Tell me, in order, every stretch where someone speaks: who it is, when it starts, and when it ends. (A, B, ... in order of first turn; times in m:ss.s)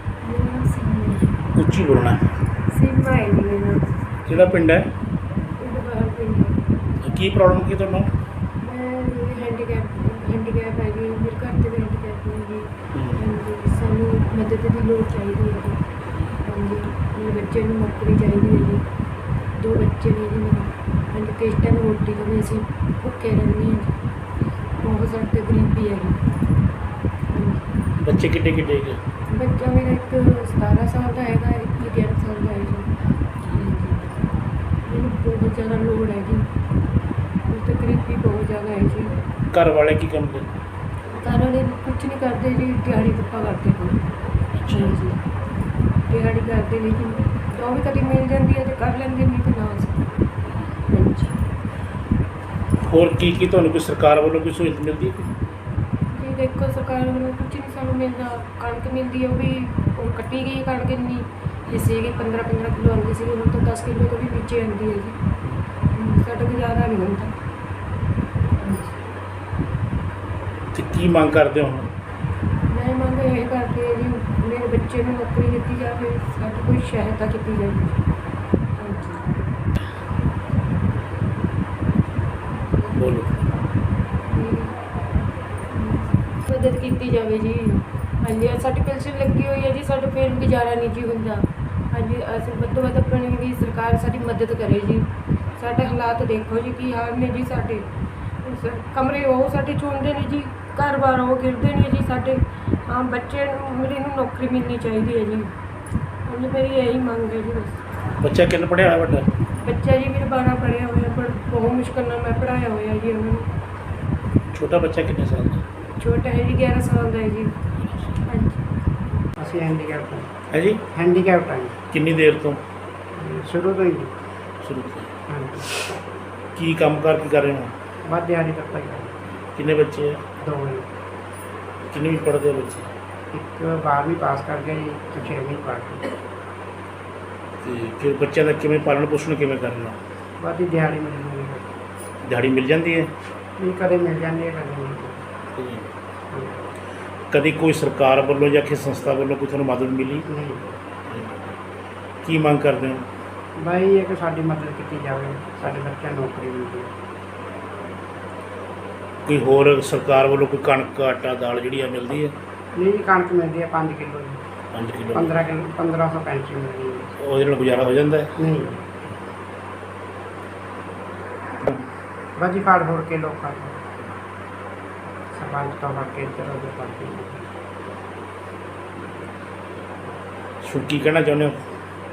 0:00.2-0:01.4 A
0:01.5-0:02.2 B
0:02.7-0:04.0 A
0:04.2-0:04.8 B
0:05.6-0:06.8 A
0:07.0-0:08.1 B
0:08.6-0:15.8 A
0:16.4-0:18.8 A
0:19.6-0:23.9 A
0:24.8-0:26.2 A
0:27.3-0:27.7 A
0:28.0-0:29.0 B
0:29.3-0:32.9 A
0:33.4-0:36.5 A
0:37.5-0:39.2 A
0:39.5-0:40.4 B
0:41.1-0:44.1 A
0:44.6-0:45.0 B
0:44.7-0:45.2 A
0:46.1-0:50.0 A
0:50.9-0:51.3 A
0:52.8-0:55.3 B
0:56.1-1:05.2 A
1:05.9-1:07.3 A
1:08.6-1:08.9 A
1:10.7-1:11.9 B
1:12.6-1:18.0 A
1:18.8-1:19.3 A
1:23.0-1:23.3 B
1:24.3-1:24.8 A
1:25.7-1:37.9 A
1:38.4-1:45.5 A
1:46.2-1:47.8 A
1:48.2-1:49.3 B
1:49.5-1:53.5 A
1:54.5-1:55.6 B
1:56.0-1:57.5 A
1:58.2-1:58.6 A
1:59.4-2:00.3 C
2:00.5-2:00.8 B
2:00.9-2:01.8 C
2:01.9-2:02.6 B
2:03.2-2:04.1 C
2:04.6-2:05.1 B
2:05.3-2:05.9 C
2:06.5-2:07.7 B
2:08.0-2:09.2 C
2:09.5-2:10.2 B
2:10.4-2:10.9 C
2:11.9-2:12.9 B
2:13.3-2:16.1 C
2:17.6-2:20.0 B
2:20.4-2:21.7 C
2:22.2-2:23.1 B
2:23.6-2:25.2 C
2:25.6-2:25.9 B
2:26.3-2:26.7 C
2:27.3-2:30.2 B
2:30.3-2:30.7 C
2:31.1-2:31.4 B
2:32.2-2:33.0 B
2:33.6-2:36.9 C
2:39.2-2:42.3 B
2:42.7-2:44.4 C
2:44.7-2:45.3 B
2:45.1-2:47.1 C
2:47.2-2:48.3 B
2:48.4-2:48.8 C
2:52.4-2:53.8 C
2:55.3-2:57.5 C
3:00.6-3:01.6 B